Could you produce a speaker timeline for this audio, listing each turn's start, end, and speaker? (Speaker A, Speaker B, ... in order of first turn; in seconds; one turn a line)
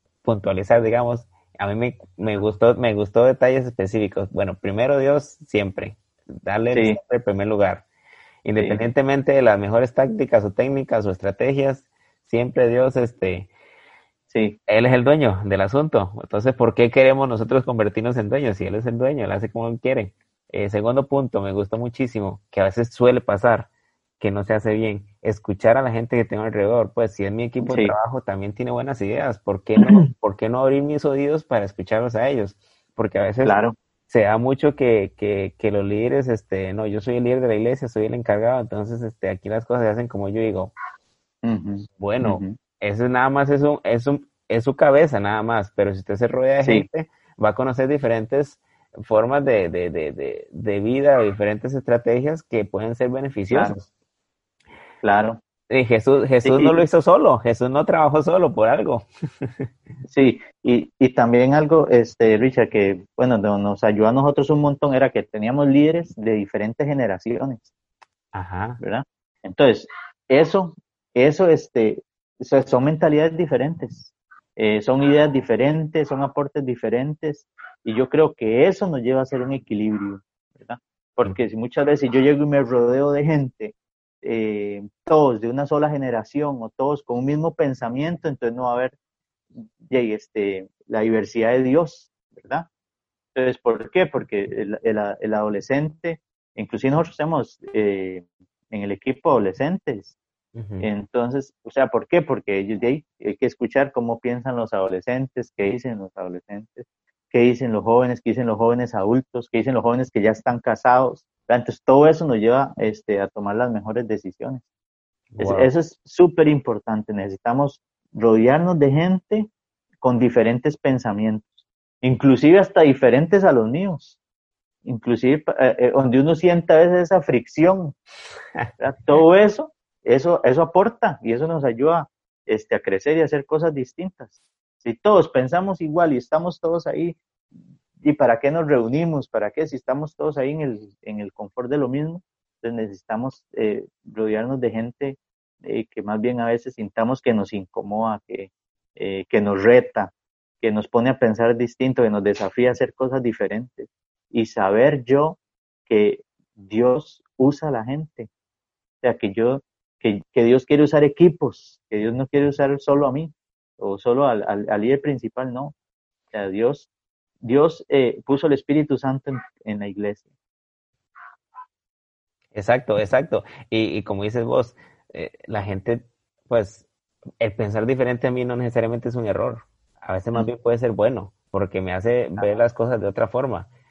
Speaker A: 0.2-7.8
Speaker B: 6.7-7.0
Speaker A: 8.4-13.5
Speaker B: 14.3-14.6
Speaker A: 14.7-23.7
Speaker A: 24.2-33.5
Speaker B: 27.6-27.9
Speaker B: 33.4-33.7
Speaker A: 34.1-40.7
Speaker B: 41.4-42.5
Speaker A: 42.0-53.9
Speaker B: 46.6-46.9
Speaker B: 53.5-53.8
Speaker B: 55.0-55.4
Speaker A: 55.7-59.7
Speaker B: 56.4-56.8
Speaker B: 60.1-67.7
Speaker A: 68.3-68.8
Speaker B: 68.8-88.9
Speaker B: 89.8-92.7
Speaker B: 93.3-100.1
Speaker A: 100.5-100.8
Speaker B: 100.8-114.6
Speaker A: 115.4-115.7
Speaker B: 115.4-119.5
Speaker B: 120.0-121.5
Speaker B: 122.0-124.2
Speaker B: 124.8-127.9
Speaker B: 128.8-134.3
Speaker B: 134.8-137.2
Speaker B: 138.0-158.3
Speaker B: 159.0-165.7
Speaker B: 166.3-166.9
Speaker B: 167.5-170.3
Speaker A: 172.5-176.8
Speaker A: 177.4-183.7